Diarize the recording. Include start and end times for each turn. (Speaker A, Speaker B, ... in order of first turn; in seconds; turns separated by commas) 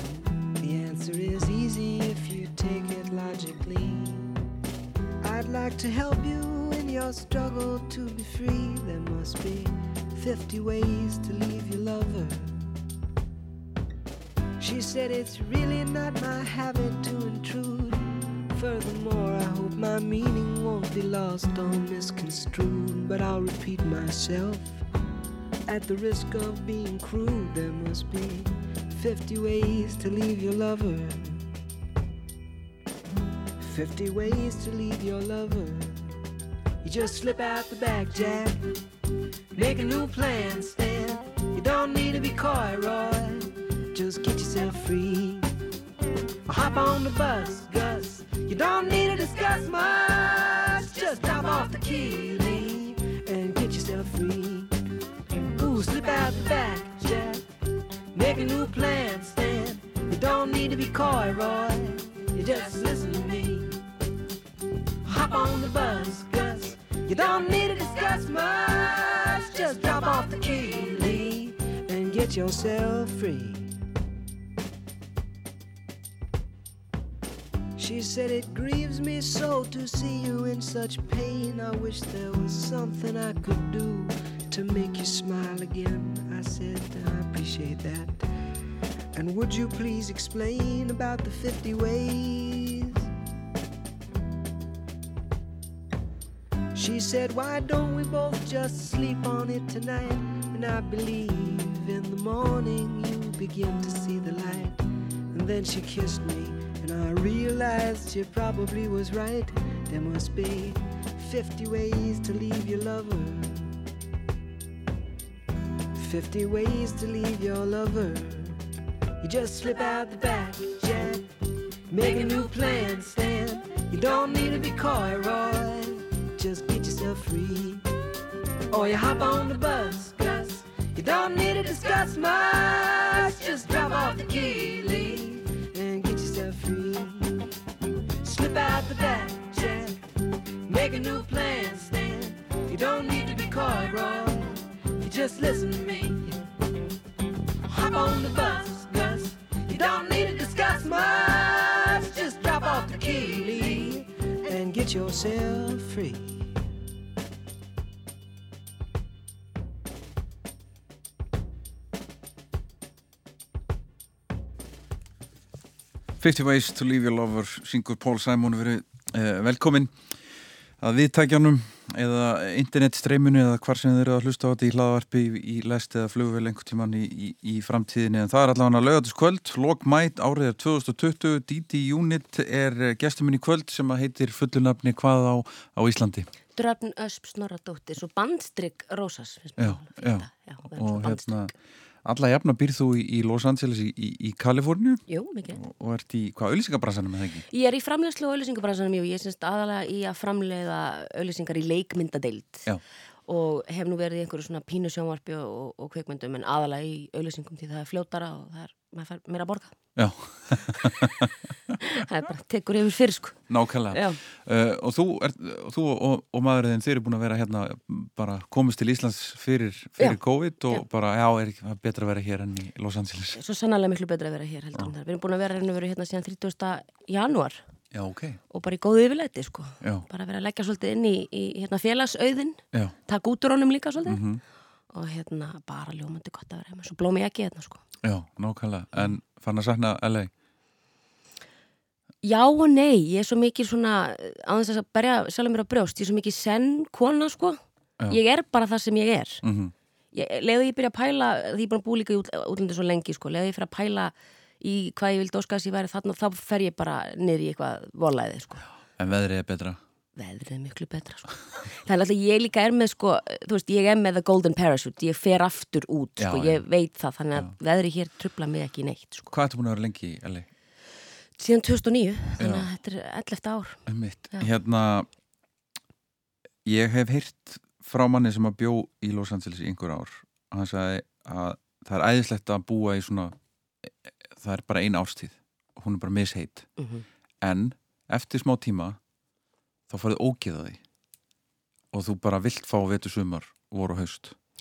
Speaker A: 0.6-4.3, Speaker A: 5.2-12.7, Speaker A: 14.6-24.8, Speaker A: 25.6-31.5, Speaker A: 33.6-36.2, Speaker A: 36.8-38.6, Speaker A: 39.5-45.5, Speaker A: 46.5-54.7, Speaker A: 55.5-57.5, Speaker A: 58.1-63.8, Speaker A: 65.0-73.7, Speaker A: 77.8-88.2, Speaker A: 89.1-93.1, Speaker A: 96.7-113.8, Speaker A: 115.9-118.6, Speaker A: 119.2-121.3, Speaker A: 121.9-127.9, Speaker A: 128.7-137.5, Speaker A: 138.2-140.0, Speaker A: 140.7-146.4, Speaker A: 147.7-156.5, Speaker B: 166.2-169.9, Speaker B: 170.8-186.2, Speaker C: 186.6-191.5, Speaker B: 189.6-191.5, Speaker B: 192.0-197.5, Speaker C: 195.1-195.6, Speaker C: 197.5-202.7, Speaker C: 203.3-209.7, Speaker B: 209.9-211.1, Speaker C: 211.9-213.4, Speaker B: 213.5-223.4, Speaker C: 213.9-214.2, Speaker C: 223.3-227.6, Speaker B: 227.9-228.4, Speaker C: 228.5-234.2, Speaker B: 234.1-234.4, Speaker C: 234.9-237.8, Speaker B: 238.0-240.3, Speaker C: 242.2-249.4, Speaker B: 249.4-249.7, Speaker C: 250.1-258.6, Speaker B: 259.0-259.8, Speaker C: 260.2-269.3, Speaker B: 266.2-266.6, Speaker B: 269.3-270.5, Speaker C: 271.4-273.8, Speaker B: 272.4-272.7, Speaker B: 273.9-275.1, Speaker B: 276.6-286.7, Speaker C: 286.8-287.1, Speaker B: 287.4-289.0, Speaker B: 289.9-290.8, Speaker B: 291.9-294.4